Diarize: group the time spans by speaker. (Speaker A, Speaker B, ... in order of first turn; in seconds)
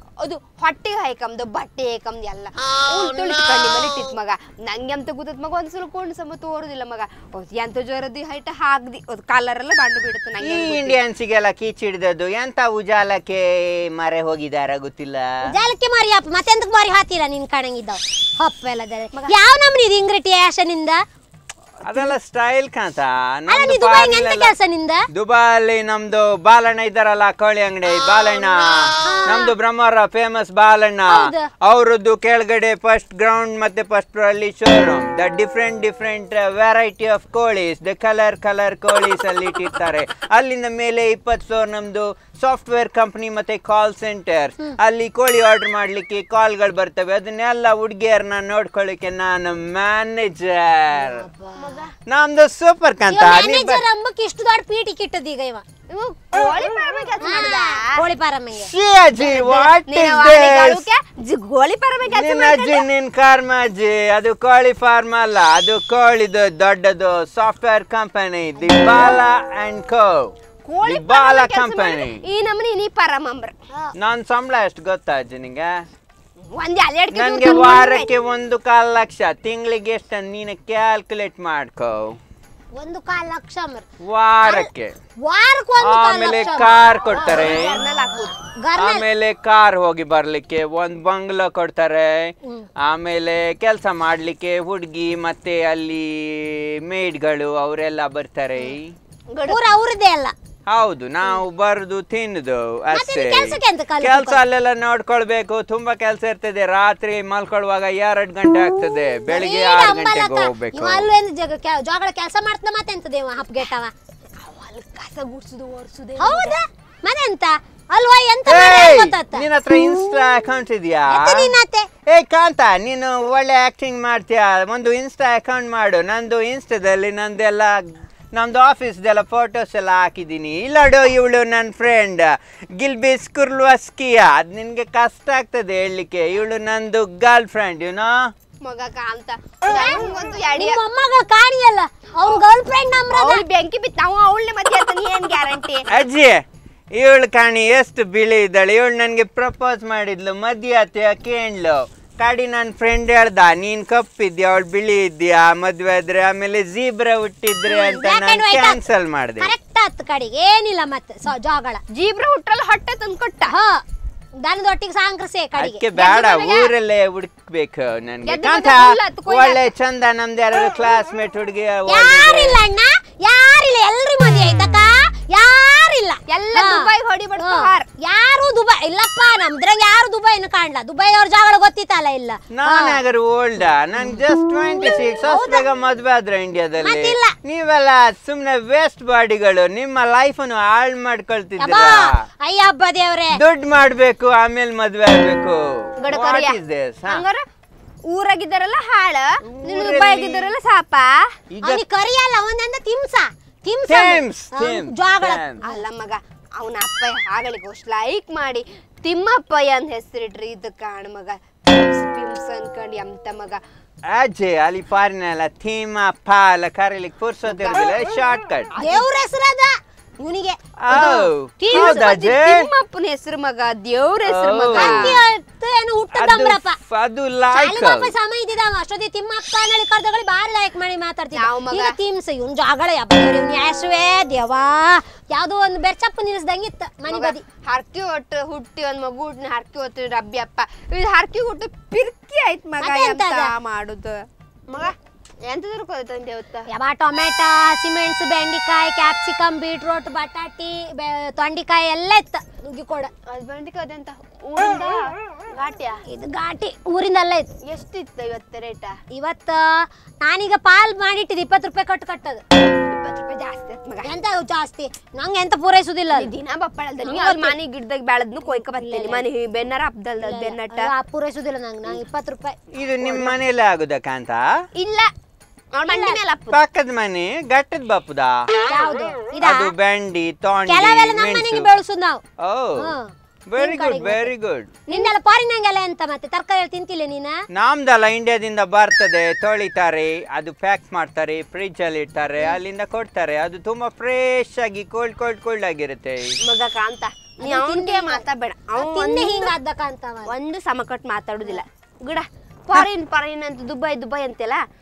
Speaker A: 0.2-11.0, 51.6-51.9, 55.9-58.0, 59.2-62.9, 70.7-73.5, 76.5-78.1, 87.1-88.3, 99.3-99.7, 114.4-116.6, 138.6-140.8, 143.1-145.9, 161.9-163.5, 166.2-166.7, 168.2-169.6, 176.3-177.9, 196.0-197.4, 198.1-201.1, 205.6-213.6, 217.5-217.8, 218.8-219.1, 220.9-225.1, 231.4-231.9, 237.1-246.7, 253.3-256.0, 257.6-259.0, 262.9-264.1, 266.1-270.9, 272.8-273.3, 274.8-275.1, 275.8-276.6, 296.4-299.6, 300.3-304.6
Speaker B: 10.4-15.5, 21.8-24.5, 25.1-51.2, 52.1-53.8, 58.6-60.9, 62.1-70.3, 70.8-72.2, 74.0-75.8, 77.1-82.2, 84.0-85.0, 85.8-87.8, 88.8-99.0, 100.7-111.1, 118.5-121.5, 122.1-138.2, 145.9-146.4, 146.9-159.5, 165.6-172.6, 182.5-192.2, 193.3-197.2, 199.4-200.5, 201.5-201.8, 203.9-205.6, 214.1-218.7, 220.8-222.7, 224.3-225.2, 226.1-228.1, 272.7-274.5, 276.5-278.5, 279.4-281.7, 282.4-282.9, 283.5-284.8, 287.5-296.4
Speaker C: 15.4-21.0, 23.5-25.1, 29.0-29.5, 31.1-31.5, 51.0-51.9, 53.1-55.6, 57.2-58.7, 68.6-69.1, 82.8-83.8, 85.2-86.8, 88.1-89.0, 99.5-100.3, 102.9-104.4, 109.3-113.9, 116.2-119.5, 121.1-121.9, 139.7-140.0, 140.5-143.4, 157.7-158.8, 159.4-161.8, 163.5-163.8, 164.4-166.6, 171.9-176.9, 177.4-183.0, 185.1-185.6, 186.8-187.3, 191.6-193.4, 201.6-205.7, 218.8-222.2, 224.7-226.8, 227.5-237.4, 242.8-243.5, 246.7-253.1, 256.1-257.5, 259.1-262.4, 264.0-266.3, 267.1-267.6, 268.5-269.2, 270.2-272.6, 275.9-276.2, 278.5-279.7, 280.7-282.2, 282.8-284.3, 284.9-287.4, 297.4-298.2, 298.8-300.3